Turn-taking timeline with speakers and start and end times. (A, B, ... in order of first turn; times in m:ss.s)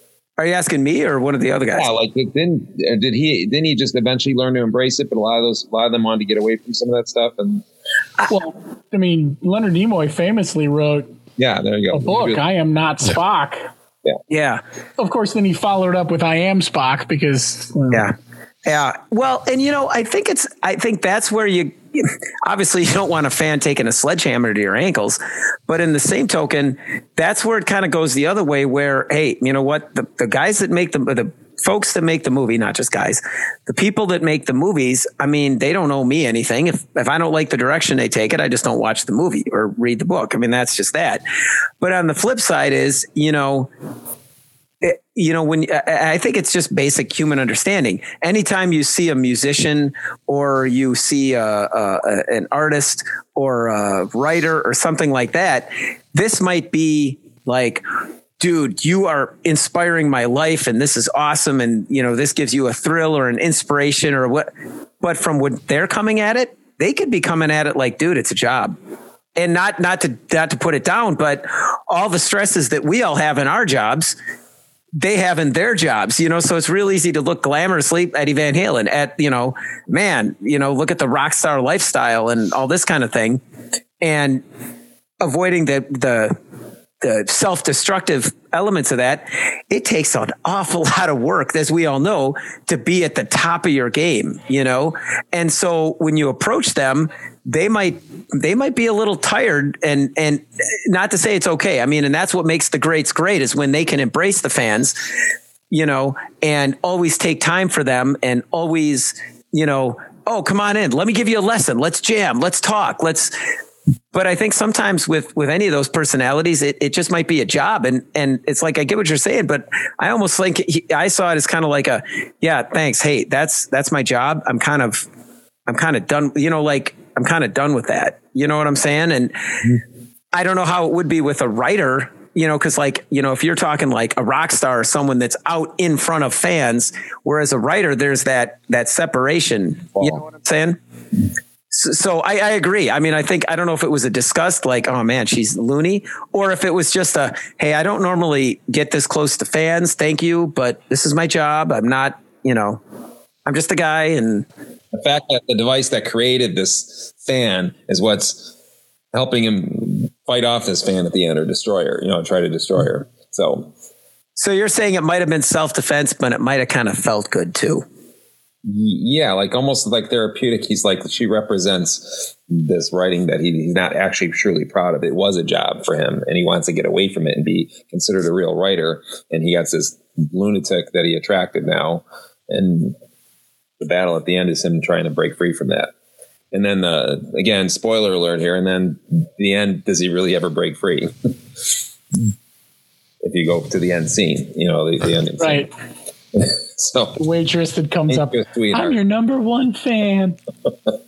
0:00.4-0:01.9 A
0:01.7-0:07.6 B
0:08.3-0:11.1 C
0:11.4-0:12.4 B
0:11.9-0:13.7 C
0:14.3-0:14.6 A
0:15.0-0:18.1 C
0:18.6-0:41.2 A
0:41.8-0:43.7 A
0:44.8-0:57.8 A
0:58.4-1:04.5 A
1:05.0-1:08.8 A
1:09.4-1:14.2 A
1:15.0-1:23.4 A
1:24.0-1:24.4 A
1:25.2-1:26.4 A
1:27.0-1:45.0 A
1:45.7-1:53.3 A
1:54.1-2:05.1 A
2:05.7-2:09.4 A
2:10.3-2:20.8 A
2:19.9-2:20.2 B
2:21.7-2:32.8 A
2:33.5-2:34.5 A
2:35.0-2:38.5 B
2:39.1-2:43.7 B
2:44.4-2:47.8 A
2:48.6-3:03.0 B
3:03.8-3:05.9 B
3:06.5-3:11.1 B
3:13.2-3:15.7 B
3:15.4-3:15.7 C
3:16.4-3:17.2 B
3:17.2-3:20.4 C
3:18.1-3:19.0 B